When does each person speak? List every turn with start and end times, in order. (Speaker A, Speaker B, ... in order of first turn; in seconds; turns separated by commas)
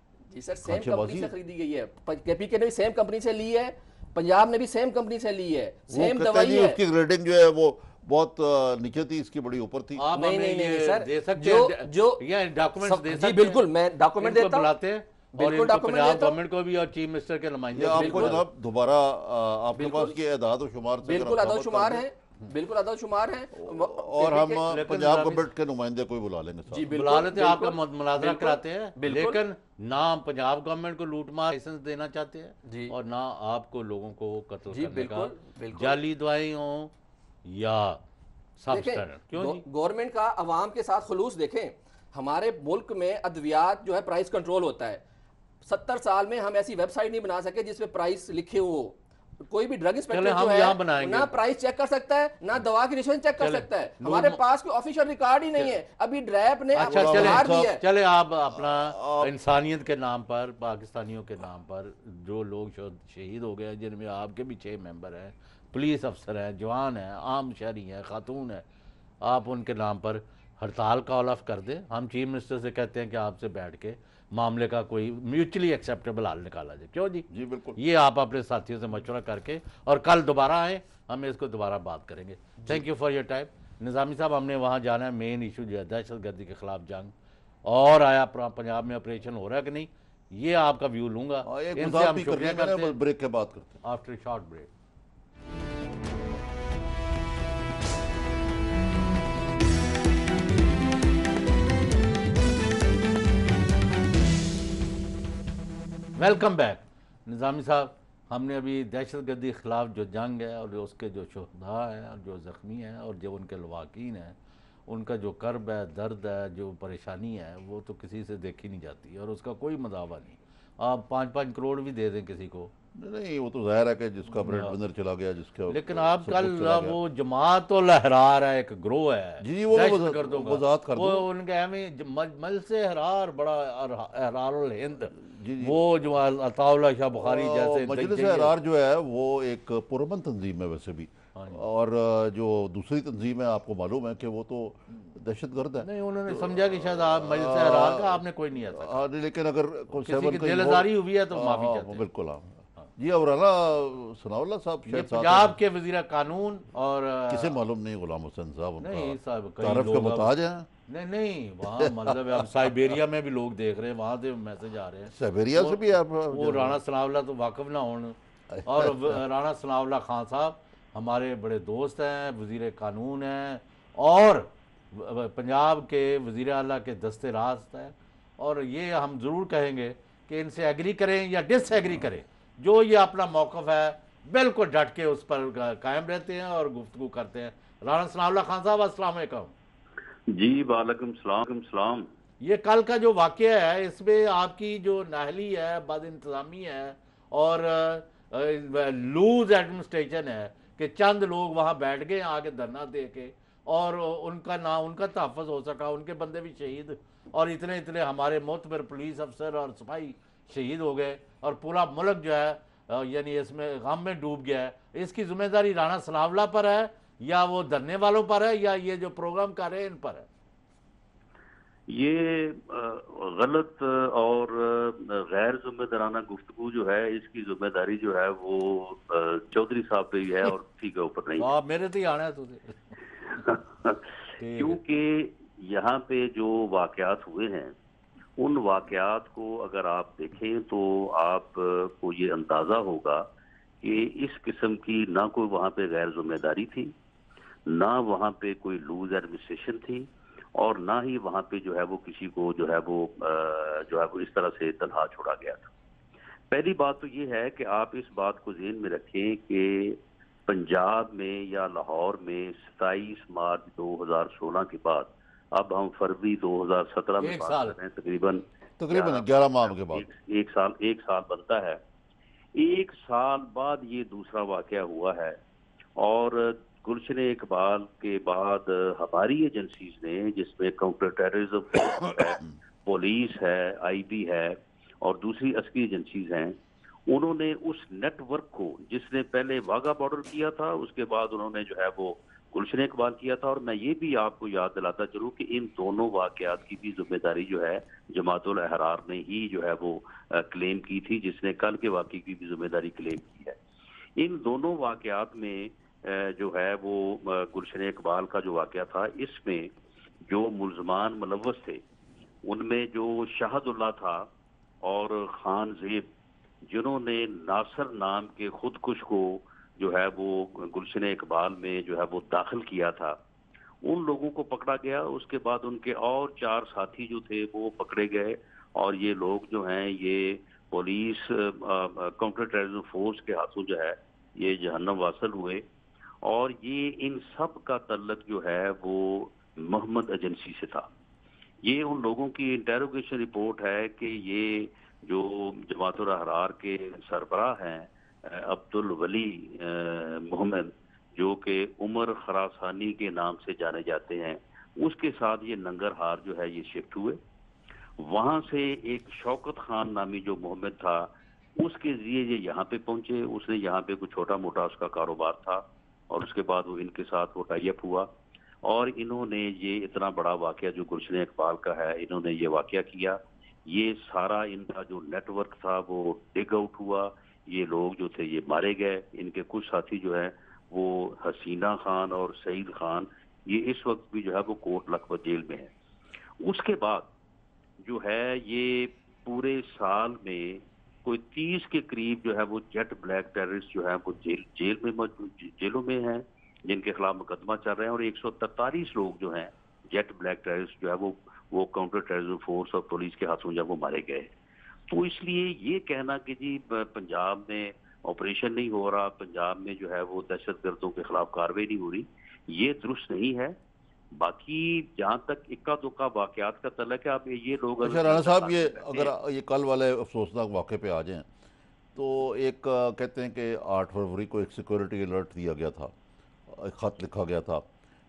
Speaker A: 0.3-6.8, Speaker B: 0.7-1.3, Speaker B: 5.9-10.1, Speaker C: 10.0-13.6, Speaker A: 10.2-12.3, Speaker A: 12.8-14.7, Speaker C: 14.2-18.4, Speaker A: 15.3-16.4, Speaker B: 17.7-22.0, Speaker A: 17.9-18.4, Speaker A: 19.8-20.2, Speaker A: 21.0-24.7, Speaker B: 23.5-26.9, Speaker C: 24.7-25.5, Speaker A: 26.7-29.4, Speaker C: 26.9-36.9, Speaker A: 32.6-33.0, Speaker A: 34.7-36.0, Speaker C: 37.5-38.0, Speaker C: 38.6-39.6, Speaker A: 38.7-45.0, Speaker A: 45.6-57.8, Speaker C: 50.1-51.3, Speaker C: 53.4-54.4, Speaker B: 56.8-57.7, Speaker C: 56.8-68.6, Speaker B: 58.5-59.3, Speaker C: 69.2-87.1, Speaker B: 77.3-77.8, Speaker C: 87.7-93.0, Speaker B: 91.5-93.8, Speaker C: 93.8-94.7, Speaker C: 106.2-114.4, Speaker C: 114.9-122.7, Speaker B: 123.0-127.0, Speaker C: 124.3-124.8, Speaker C: 125.7-138.5, Speaker B: 129.4-131.3, Speaker B: 135.2-135.8, Speaker B: 137.1-155.6, Speaker C: 141.4-141.6, Speaker C: 145.8-149.0, Speaker C: 150.1-152.0, Speaker C: 154.9-157.5, Speaker B: 157.3-160.7, Speaker C: 158.8-160.3, Speaker C: 160.9-165.8, Speaker B: 161.6-162.7, Speaker B: 165.1-166.8, Speaker C: 166.3-189.5, Speaker B: 168.5-169.2, Speaker D: 190.3-192.1, Speaker C: 192.4-220.3, Speaker D: 221.9-231.5, Speaker C: 231.4-232.8, Speaker D: 233.3-237.7, Speaker C: 234.4-234.8, Speaker D: 238.4-243.2, Speaker D: 243.8-246.9, Speaker D: 247.7-255.7, Speaker D: 256.5-271.8, Speaker C: 267.2-267.8, Speaker B: 268.8-270.1, Speaker D: 272.6-275.4, Speaker D: 276.0-286.6, Speaker D: 287.1-303.6, Speaker D: 304.2-309.7, Speaker D: 310.3-311.8, Speaker D: 312.4-314.3, Speaker D: 314.8-316.1, Speaker D: 316.6-323.2, Speaker D: 323.8-335.6, Speaker D: 336.2-340.9, Speaker D: 341.6-357.2, Speaker D: 358.0-361.1, Speaker D: 361.6-368.1, Speaker D: 368.6-385.7, Speaker D: 386.4-387.1, Speaker D: 387.8-404.3, Speaker D: 404.9-413.6, Speaker D: 414.1-419.1, Speaker B: 417.8-421.3, Speaker B: 421.9-425.9, Speaker B: 426.5-427.6